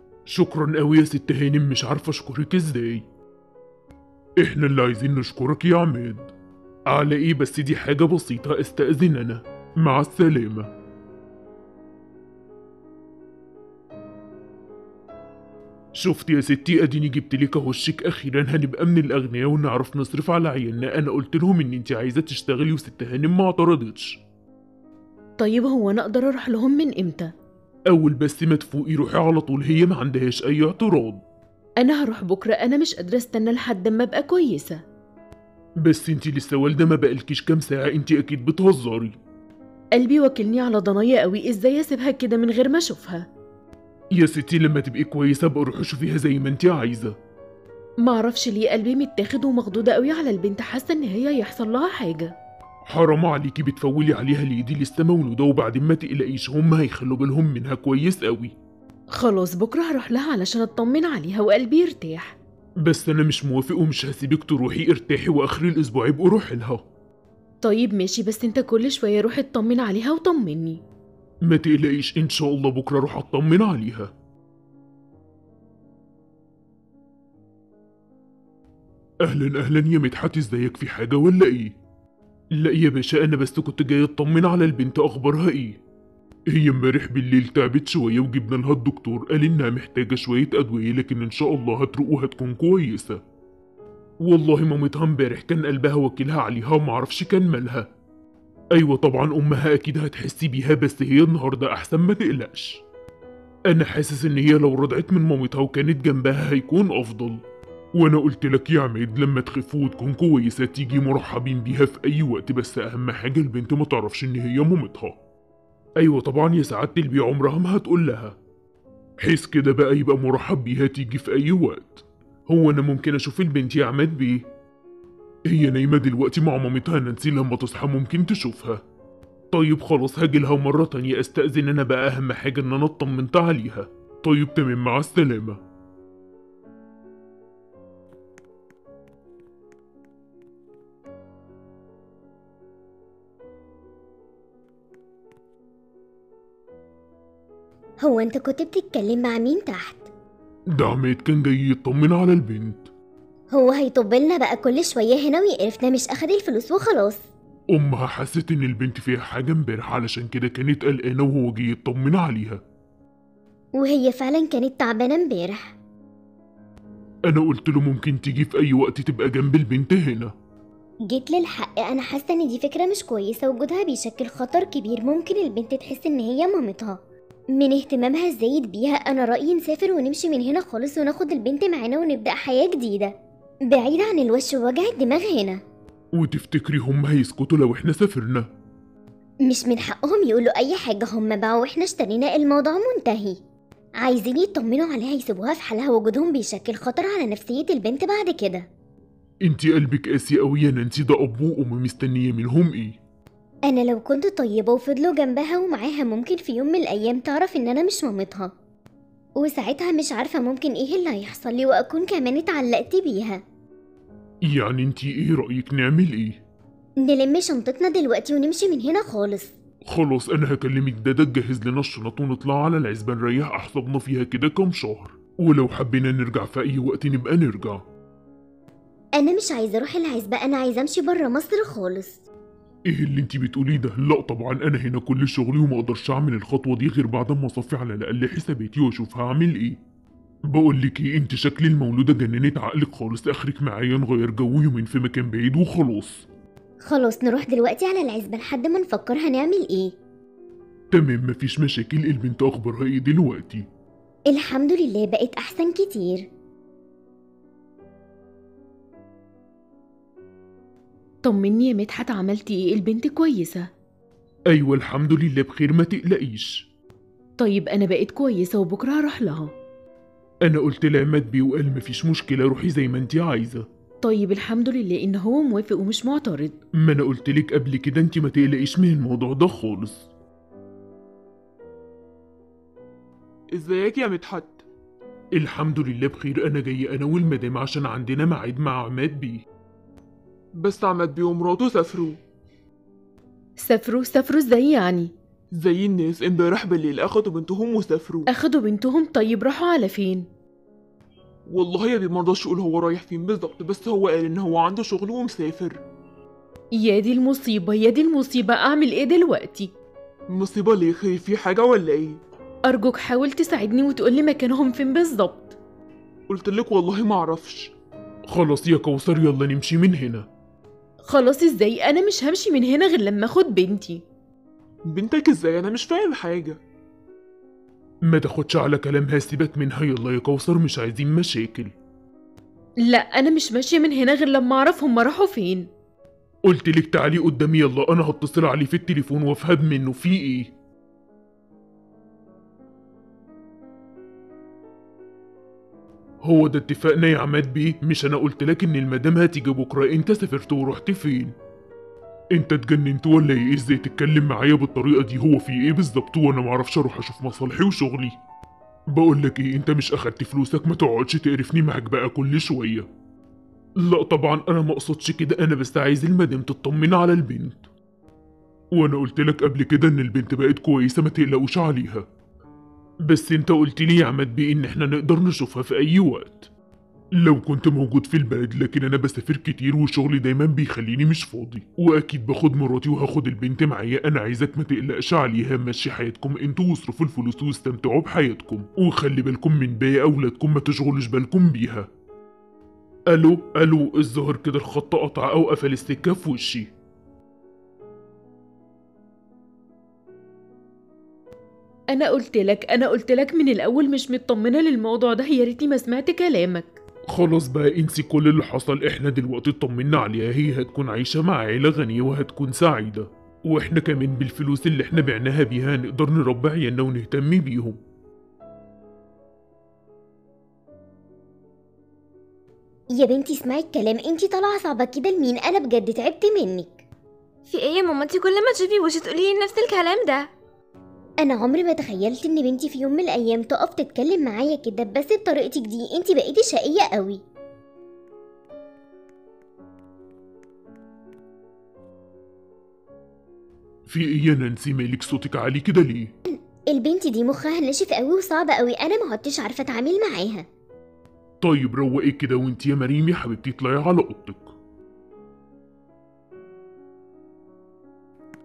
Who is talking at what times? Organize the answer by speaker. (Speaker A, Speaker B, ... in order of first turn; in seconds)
Speaker A: 0.3-3.0, 4.4-6.3, 6.9-10.7, 16.0-24.2, 27.9-31.2, 35.8-39.2, 44.1-47.2, 52.9-58.5, 62.8-66.8, 71.5-74.1, 79.2-81.8, 82.5-85.8, 86.5-93.2, 94.2-97.9, 98.8-102.8, 103.7-107.4, 108.0-115.2, 116.0-118.4, 119.2-124.5, 125.5-128.8, 129.5-135.6, 150.8-152.9, 157.7-162.6, 167.3-170.3, 186.2-188.5, 199.4-203.0, 214.5-216.4, 219.9-227.8, 232.9-239.8, 240.5-246.3, 250.9-253.6, 264.5-266.7, 270.4-273.7, 276.8-280.1, 285.4-289.4, 318.3-320.3, 328.1-331.7, 336.5-340.5, 346.2-351.3, 352.3-358.2, 358.9-362.9, 363.8-367.7, 368.7-372.1, 373.1-376.5, 377.2-391.9, 393.1-396.7, 407.1-417.8, 443.9-446.1, 451.4-454.5
Speaker B: 25.4-27.3, 31.8-34.8, 40.0-43.3, 48.0-52.3, 59.1-62.4, 67.6-70.8, 261.2-263.7, 267.4-269.5, 274.0-276.6, 293.6-295.1, 298.3-300.3, 306.7-309.7, 312.7-315.6, 321.1-324.0, 332.9-335.7, 401.9-406.8
Speaker C: 148.0-150.1, 153.5-157.2, 163.8-165.8, 171.1-177.0, 177.6-183.1, 183.7-185.6, 189.5-193.4, 194.0-198.7, 203.7-208.5, 209.4-213.4, 217.1-219.5, 229.2-232.2, 246.9-249.9, 254.3-256.3, 423.0-426.8, 431.2-437.2, 446.3-450.5
Speaker D: 283.5-284.6, 290.6-292.2, 295.5-298.3, 301.5-305.8, 310.3-312.2, 316.3-317.7, 324.9-326.6
Speaker E: 427.5-430.3